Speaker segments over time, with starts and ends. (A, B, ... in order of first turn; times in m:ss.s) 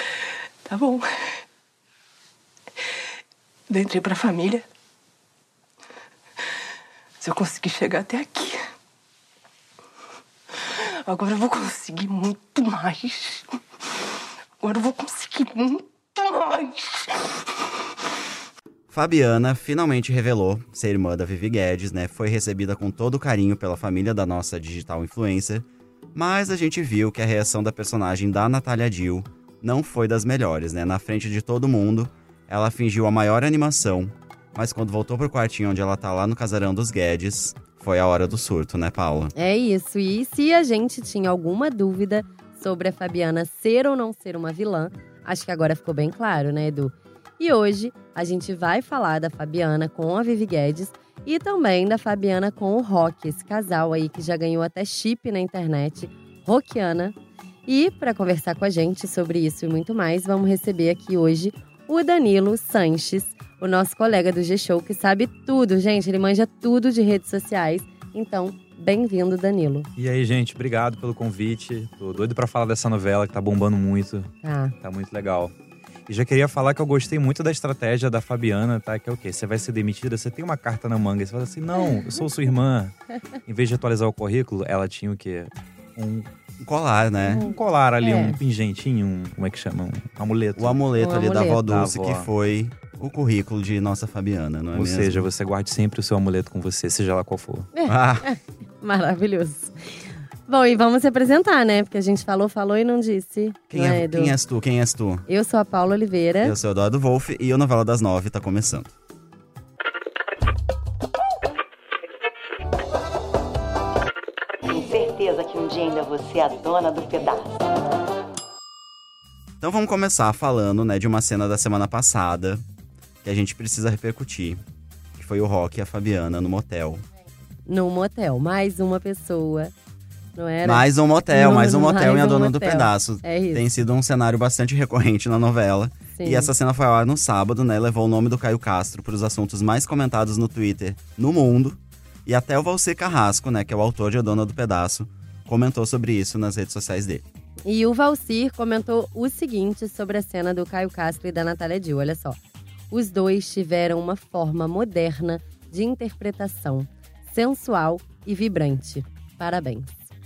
0:00.6-0:01.3 A
0:03.7-0:04.6 A
0:07.2-0:08.6 A
0:10.6-0:17.4 A
0:18.9-0:39.3 B
0:39.4-1:09.9 C
1:10.0-1:14.3 D
1:14.4-1:14.8 C
1:14.8-1:15.5 D
1:16.1-1:26.3 D
1:26.6-1:27.5 B
1:27.2-1:30.8 D
1:28.0-1:28.4 C
1:30.6-1:35.3 B
1:31.0-1:31.6 C
1:31.7-1:32.3 D
1:34.7-1:37.7 D
1:37.7-1:44.4 C
1:37.9-1:38.3 B
1:43.7-1:45.3 B
1:45.3-1:46.6 C
1:46.4-1:48.9 B
1:54.6-1:57.5 E
1:59.6-2:02.6 B
2:03.2-2:04.6 B
2:05.2-2:07.0 B
2:07.7-2:09.7 C
2:10.4-2:13.6 C
2:10.6-2:27.2 B
2:16.2-2:16.5 C
2:27.6-2:32.4 C
2:32.9-2:39.9 C